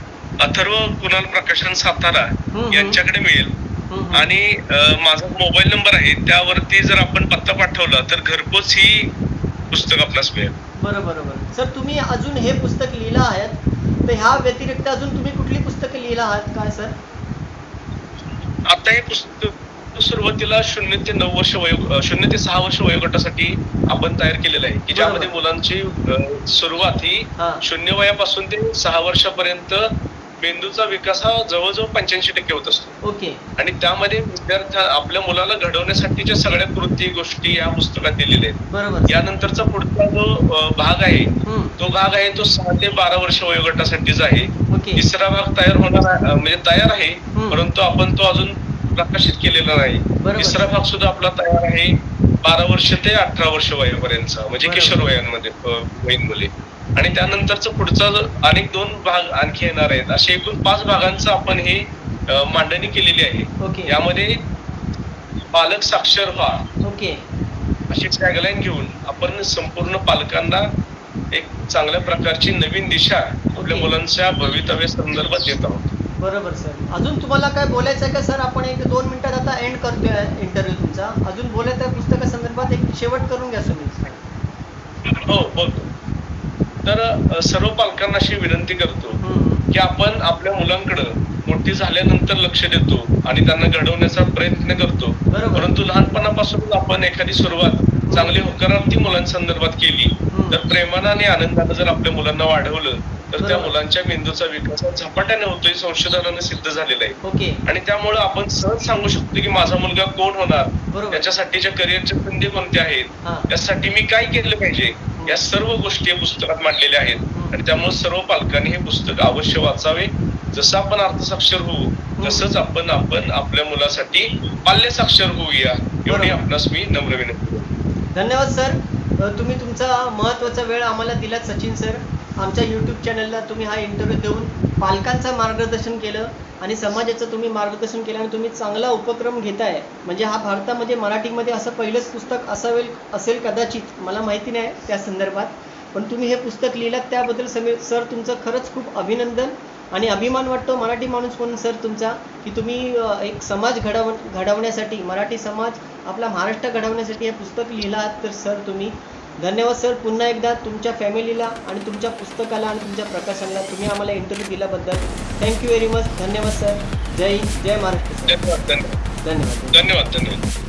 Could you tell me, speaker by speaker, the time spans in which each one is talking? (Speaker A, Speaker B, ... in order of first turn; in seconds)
Speaker A: 0.4-3.5, 4.1-9.1, 9.7-10.5, 18.7-29.8, 30.4-33.0, 33.6-64.4, 65.5-66.7, 67.9-70.7, 71.3-75.9, 85.2-85.9, 86.9-89.2, 89.7-127.7, 168.3-169.0, 169.7-170.4
Speaker B: 2.5-3.0, 3.9-4.3, 10.8-17.0, 24.9-25.3, 27.4-27.6, 33.0-33.4, 38.7-39.2, 41.5-41.8, 44.7-45.0, 47.4-47.7, 50.2-50.7, 54.6-55.1, 63.6-64.0, 66.8-67.2, 73.6-73.9, 76.2-84.2, 89.2-89.7, 95.3-95.7, 98.1-98.4, 100.3-100.6, 103.4-103.7, 107.2-107.6, 110.9-111.3, 113.2-113.5, 115.2-115.4, 117.3-117.6, 122.2-122.5, 126.1-126.4, 128.1-168.4, 169.2-169.8